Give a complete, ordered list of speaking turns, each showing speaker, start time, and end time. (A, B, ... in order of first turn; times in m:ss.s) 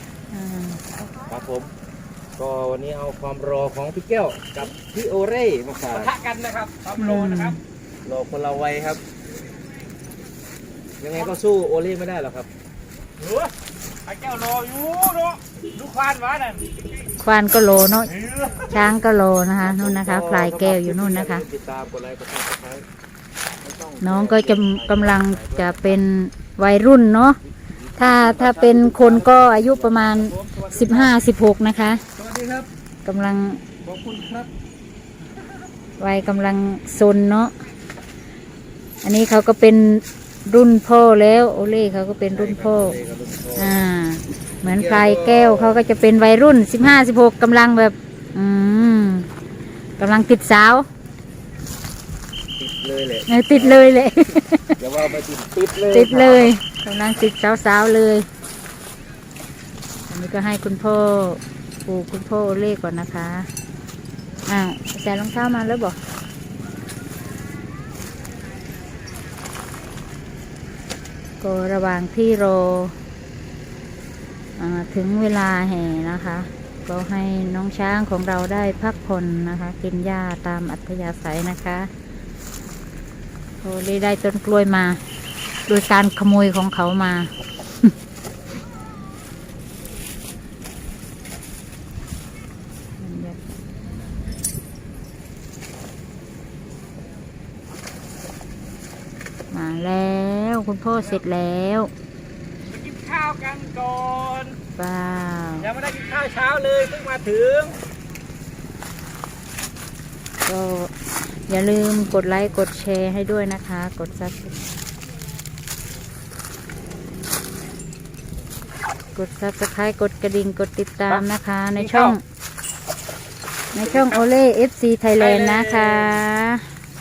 0:00.3-0:00.8 A
0:01.2-0:01.7 B
0:02.4-0:06.2 B
0:06.2-0:07.4 C
0:06.9-0:07.6 A
0:08.0-0:09.0 B
0:11.0-0:12.5 B
0:14.1-0:16.7 C
0:17.2-0:18.1 A
0:18.6-0:21.4 A
0:19.7-0:22.8 B
0:23.6-0:25.8 B
0:24.0-0:27.4 A
0:28.0-0:30.7 B
0:28.0-0:32.0 A
0:32.2-0:32.7 B
0:33.0-0:33.6 A
0:33.9-0:34.5 B
0:36.0-0:37.5 A
0:39.0-0:43.0 A
0:42.4-0:43.8 B
0:43.6-0:49.3 A
0:44.7-0:45.8 B
0:50.0-0:50.9 A
0:52.6-0:53.8 B
0:53.3-0:54.8 A
0:54.8-0:56.5 B
0:55.9-0:58.3 A
1:00.1-1:03.5 A
1:04.5-1:06.0 A
1:11.4-1:13.0 A
1:14.6-1:21.9 A
1:23.6-1:25.0 A
1:25.7-1:27.3 A
1:33.0-1:33.4 A
1:39.5-1:41.9 A
1:42.7-1:44.5 B
1:43.1-1:44.5 C
1:44.8-1:45.8 A
1:45.8-1:47.7 C
1:45.9-1:47.8 B
1:50.5-1:54.6 A
1:59.2-2:02.2 A
2:03.7-2:06.7 A